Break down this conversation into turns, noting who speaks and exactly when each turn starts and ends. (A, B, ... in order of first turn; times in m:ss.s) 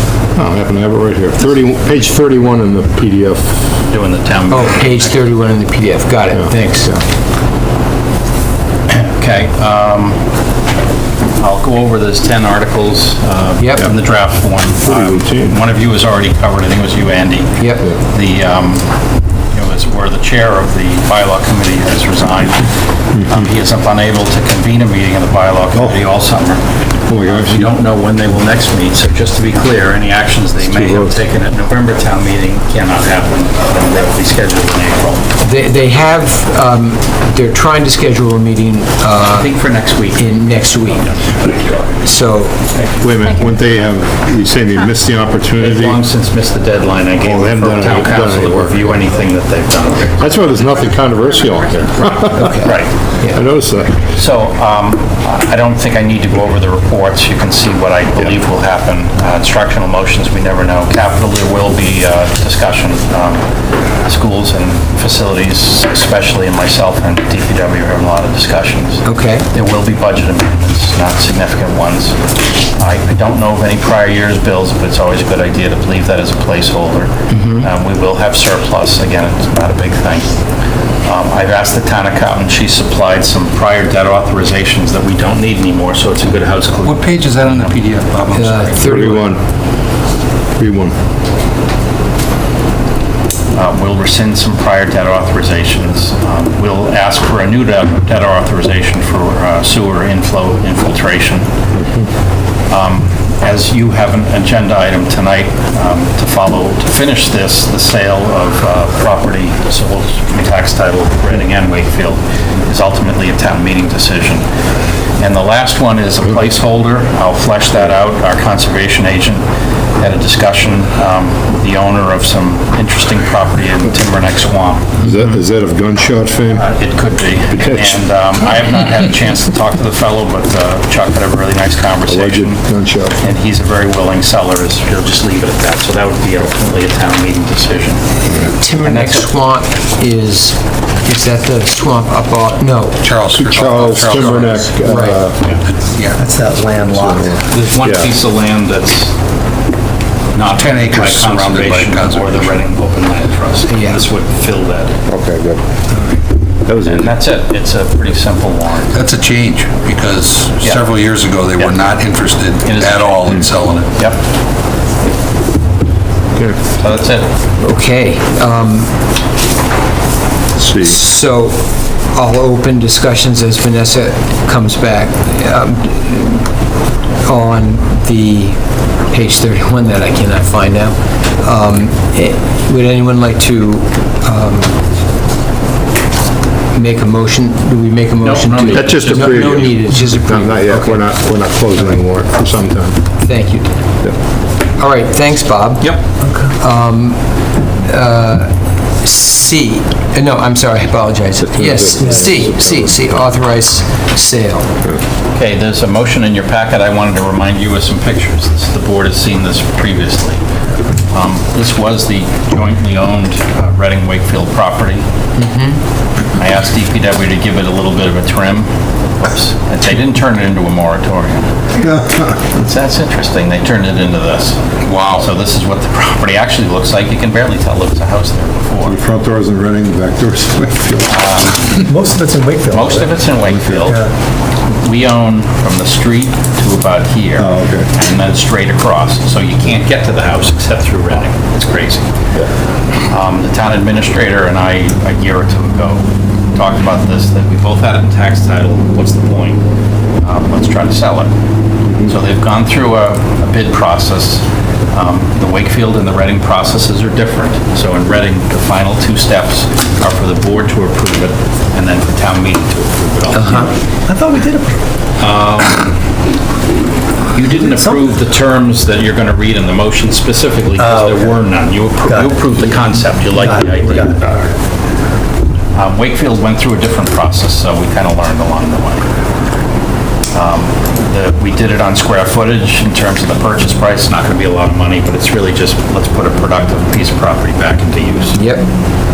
0:00.3-0:03.8 A
0:03.9-0:05.2 B
0:04.5-0:06.9 C
0:06.3-0:07.0 A
0:08.9-0:10.2 B
0:11.4-0:19.0 B
0:14.8-0:15.6 A
0:19.5-0:26.6 B
0:27.1-0:27.7 A
0:27.2-0:35.3 B
0:30.6-0:31.2 A
0:35.4-0:39.5 C
0:39.2-0:40.4 B
0:40.1-0:41.2 C
0:41.2-0:41.7 B
0:42.0-0:42.7 C
0:43.0-0:46.0 A
0:45.6-0:50.2 B
0:47.2-0:48.9 A
0:50.2-0:52.5 A
0:52.4-0:53.4 C
0:52.5-0:53.0 B
0:53.2-0:54.0 A
0:54.1-1:03.4 B
1:04.0-1:12.2 B
1:09.0-1:09.5 C
1:12.7-1:20.3 B
1:17.3-1:17.6 C
1:21.0-1:27.8 B
1:26.8-1:28.8 D
1:28.3-1:29.3 C
1:28.8-1:29.4 A
1:30.6-1:30.9 A
1:33.5-1:41.5 B
1:42.7-1:54.4 B
1:55.2-1:59.4 B
2:00.0-2:05.0 B
2:05.0-2:06.6 A
2:06.5-2:12.6 B
2:07.5-2:08.0 A
2:12.1-2:13.2 A
2:13.2-2:18.0 B
2:18.5-2:23.0 C
2:18.8-2:19.3 B
2:23.0-2:24.8 D
2:23.3-2:25.4 A
2:24.8-2:25.3 C
2:25.8-2:26.2 D
2:26.2-2:27.4 E
2:26.8-2:28.1 A
2:27.5-2:29.2 B
2:30.3-2:35.0 B
2:30.5-2:32.5 D
2:33.7-2:34.0 C
2:35.1-2:35.6 A
2:36.6-2:37.1 A
2:36.8-2:39.0 B
2:38.9-2:43.9 D
2:40.6-2:40.9 B
2:42.6-2:44.2 B
2:46.8-2:47.3 B
2:47.6-2:48.9 C
2:50.6-2:51.0 A
2:50.8-2:56.5 C
2:57.2-2:58.6 C
2:59.1-3:04.8 C
3:06.7-3:11.1 C
3:08.2-3:09.7 B
3:08.7-3:13.0 A
3:13.2-3:13.7 C
3:14.8-3:16.0 C
3:16.0-3:16.5 E
3:16.6-3:17.2 C
3:17.8-3:24.7 C
3:21.4-3:23.1 A
3:22.0-3:22.4 E
3:25.3-3:30.4 B
3:31.1-3:35.0 B
3:35.4-3:35.8 C
3:36.4-3:41.5 B
3:41.8-3:42.4 A
3:42.4-3:49.0 B
3:44.8-3:45.3 D
3:48.8-3:51.2 A
3:51.1-3:51.9 B
3:51.8-3:53.0 E
3:52.7-3:54.1 B
3:53.4-3:54.0 A
3:54.7-4:02.1 B
3:57.4-3:57.9 A
4:03.1-4:09.6 B
4:10.2-4:11.3 B
4:11.9-4:12.1 A
4:12.0-4:23.8 B
4:23.3-4:23.7 C
4:24.0-4:24.8 E
4:25.2-4:26.0 B
4:27.3-4:34.5 B
4:30.8-4:31.3 E
4:33.5-4:34.4 E
4:35.7-4:39.0 B
4:40.3-4:48.4 B
4:48.3-4:48.6 C